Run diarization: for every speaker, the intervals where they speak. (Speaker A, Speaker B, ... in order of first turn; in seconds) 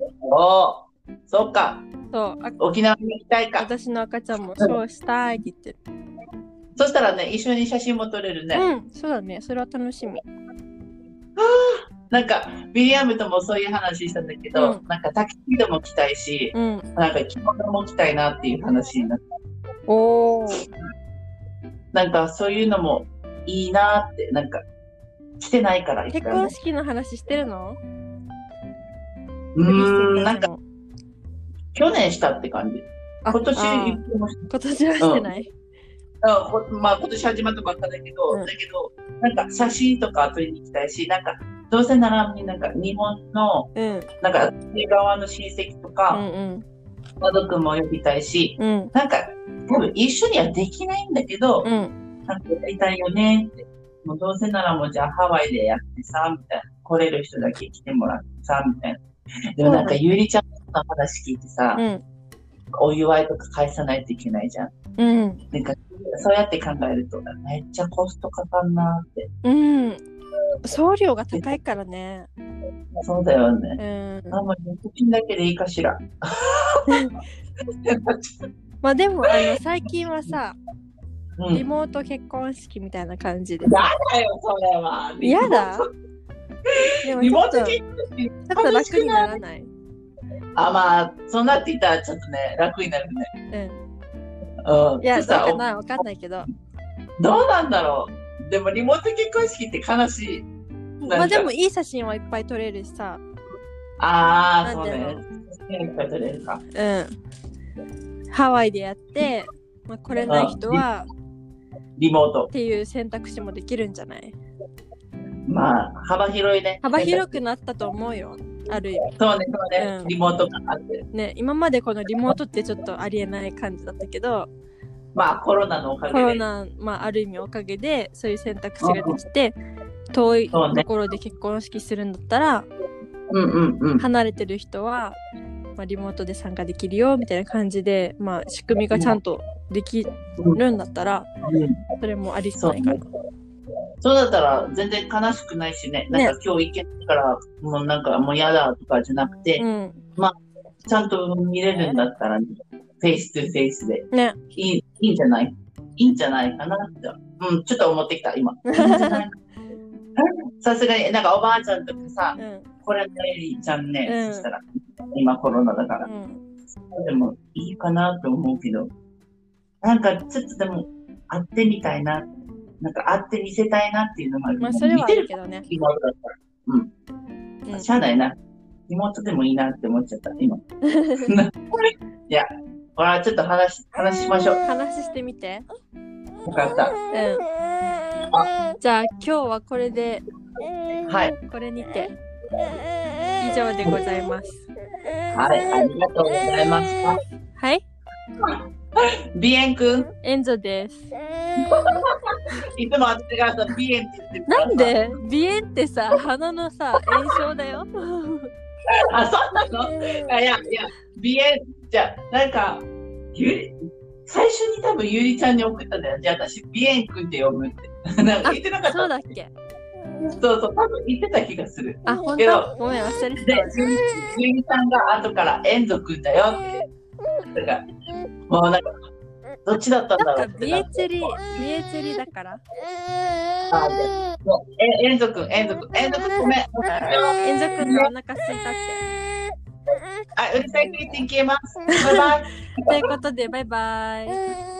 Speaker A: 0.2-1.9, 2.6-3.7, 6.8-8.7, 11.3-19.2, 21.9-24.6, 25.4-26.5, 29.5-30.4, 31.7-34.4, 35.0-35.3, 36.2-43.7, 44.2-46.2, 47.2-51.7, 52.3-59.0, 59.5-61.8, 62.7-64.7, 65.5-69.3, 73.0-73.8, 74.3-76.9, 77.8-78.3, 81.4-81.6, 83.6-85.9, 86.7-89.3, 90.5-93.3, 94.6-95.6, 97.2-100.5, 101.0-101.5, 104.0-106.6, 110.3-110.8, 112.0-112.5, 115.5-117.3, 119.1-121.0, 125.1-126.4, 128.8-129.2, 130.5-130.8, 133.3-134.0, 138.9-139.2, 141.4-141.8, 142.6-143.1, 144.0-149.6, 150.8-159.3, 160.2-166.1, 166.9-168.9, 169.8-172.3, 172.8-176.9, 177.7-178.3, 178.9-180.6, 181.1-184.6, 186.4-186.9, 191.1-191.4, 195.3-197.2, 198.4-200.1, 201.6-205.0, 208.9-219.3, 220.2-222.7, 223.4-226.8, 227.5-227.8, 228.5-229.0, 229.6-230.9, 233.7-238.1, 240.3-243.0
Speaker B: 2.1-2.6, 3.6-5.8, 8.5-10.2, 14.5-14.8, 16.5-16.9, 19.9-20.7, 26.1-27.8, 29.6-30.6, 33.2-35.5, 43.7-44.1, 46.1-46.6, 48.6-48.9, 51.6-51.9, 59.6-60.0, 61.8-62.0, 65.0-65.4, 69.4-70.0, 70.6-72.3, 73.8-74.4, 76.9-77.1, 78.8-80.5, 81.5-83.7, 85.2-85.9, 87.0-87.8, 88.5-89.7, 93.5-93.8, 95.0-96.5, 101.0-103.2, 104.6-105.2, 106.7-107.2, 108.3-111.1, 112.5-114.3, 116.8-119.1, 119.8-120.1, 121.1-124.5, 126.1-129.5, 130.1-132.7, 134.0-135.2, 135.8-141.3, 142.0-143.0, 149.6-150.0, 154.1-154.4, 158.7-159.2, 162.4-162.7, 164.1-164.5, 166.0-166.4, 174.6-175.7, 180.8-181.3, 184.6-185.7, 187.1-187.4, 188.8-190.2, 191.4-192.1, 193.4-194.7, 197.6-197.8, 200.2-201.1, 204.5-208.5, 218.4-219.5, 222.1-223.8, 230.2-232.6, 236.8-239.0, 241.9-242.3, 242.8-244.4